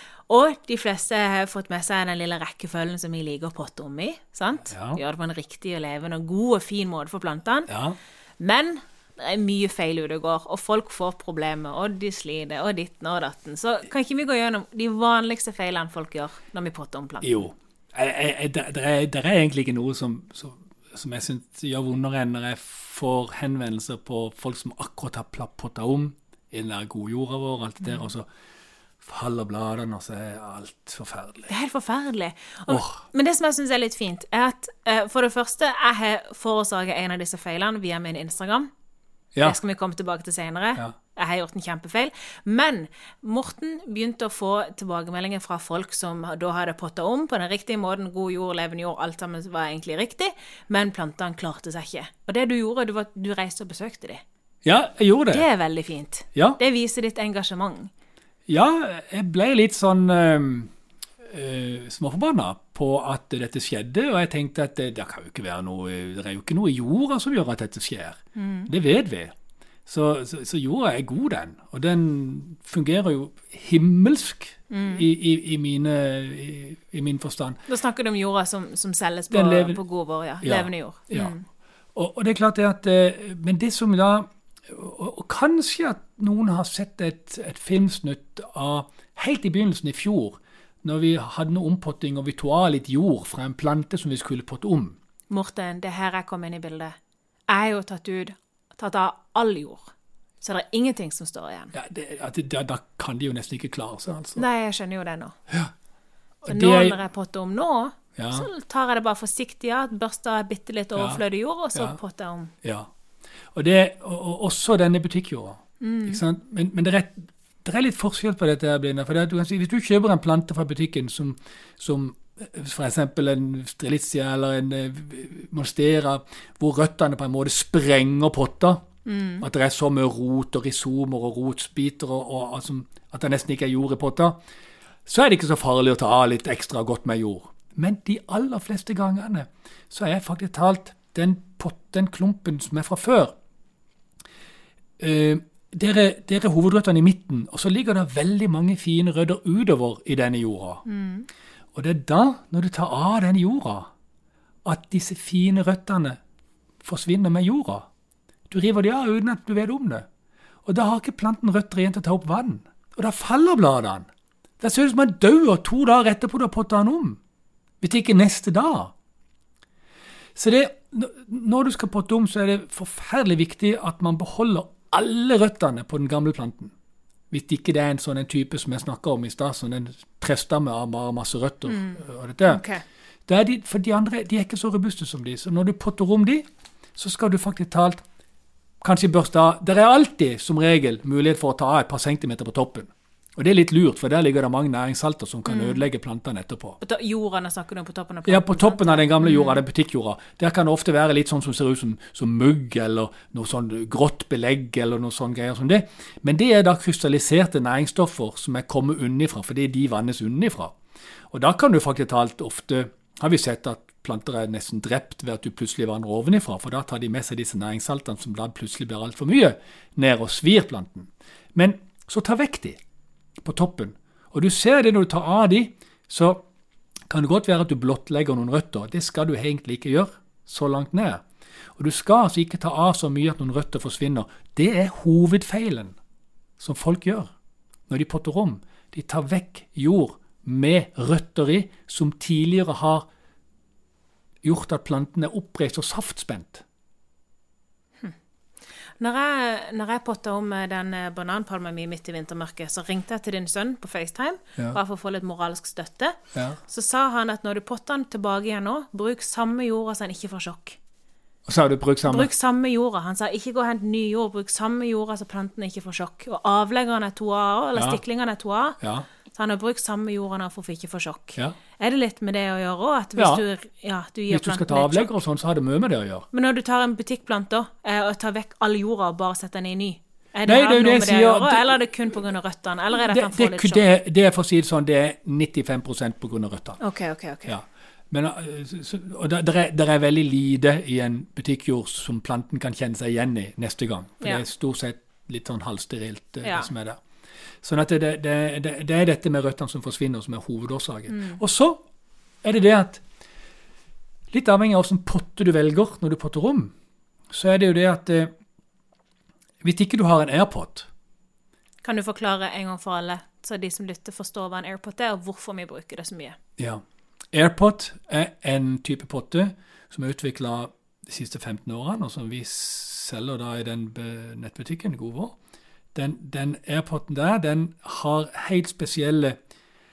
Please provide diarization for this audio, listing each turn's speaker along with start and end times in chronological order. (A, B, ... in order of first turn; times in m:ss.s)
0:00.3-0:07.7 A
0:04.7-0:05.0 B
0:07.7-0:08.0 B
0:08.4-0:17.5 A
0:17.2-0:28.2 B
0:29.0-0:31.5 B
0:31.5-0:38.7 A
0:32.7-0:33.0 B
0:39.4-0:54.2 A
0:54.6-0:55.4 B
0:55.3-0:57.9 A
0:56.3-0:56.6 B
0:58.5-1:00.7 B
1:01.2-1:09.3 B
1:08.4-1:08.7 A
1:09.8-1:17.6 B
1:14.7-1:15.0 A
1:17.7-1:21.4 A
1:19.3-1:19.8 B
1:20.4-1:21.3 B
1:21.9-1:35.0 B
1:35.3-1:37.0 A
1:37.5-1:39.9 A
1:40.4-1:41.7 A
1:41.7-1:44.4 B
1:44.4-1:45.3 A
1:46.4-1:47.0 B
1:46.5-1:52.5 A
1:48.2-1:48.5 B
1:51.0-1:51.2 B
1:53.5-2:08.8 B
1:55.8-1:56.2 A
2:09.0-2:09.4 A
2:09.4-2:14.4 B
2:15.0-2:23.3 B
2:25.0-2:30.8 B
2:30.8-2:31.3 A
2:31.7-2:33.9 B
2:34.6-2:36.2 B
2:36.8-2:37.9 B
2:38.5-2:40.0 B
2:40.6-2:44.1 B
2:44.6-2:47.2 B
2:47.8-2:48.9 B
2:50.4-2:56.7 B
2:57.3-3:02.6 B
3:01.7-3:02.8 A
3:03.3-3:08.0 B
3:08.8-3:16.8 B
3:15.5-3:15.8 A
3:16.8-3:19.6 A
3:18.2-3:30.7 B
3:31.3-3:42.8 B
3:43.4-3:46.4 B
3:47.1-3:51.2 B
3:51.8-3:56.0 B
3:56.6-3:57.3 B
3:57.9-4:03.1 B
4:04.4-4:06.6 B
4:09.0-4:20.8 A
4:16.3-4:16.6 B
4:21.4-4:22.3 B
4:22.0-4:28.8 A
4:27.7-4:28.0 B
4:28.8-4:29.1 B
4:29.3-4:35.1 A
4:33.2-4:33.4 B
4:34.3-4:36.2 B
4:36.3-4:43.8 A
4:40.4-4:41.8 B
4:42.9-4:46.8 B
4:46.8-4:47.5 A
4:47.5-4:57.0 B
4:56.4-4:56.7 A
4:57.6-5:01.8 B
5:01.1-5:01.4 A
5:02.4-5:03.0 B
5:04.3-5:06.7 B
5:07.3-5:08.3 B
5:09.6-5:10.9 B
5:11.8-5:16.4 A
5:17.3-5:25.4 B
5:25.9-5:29.4 B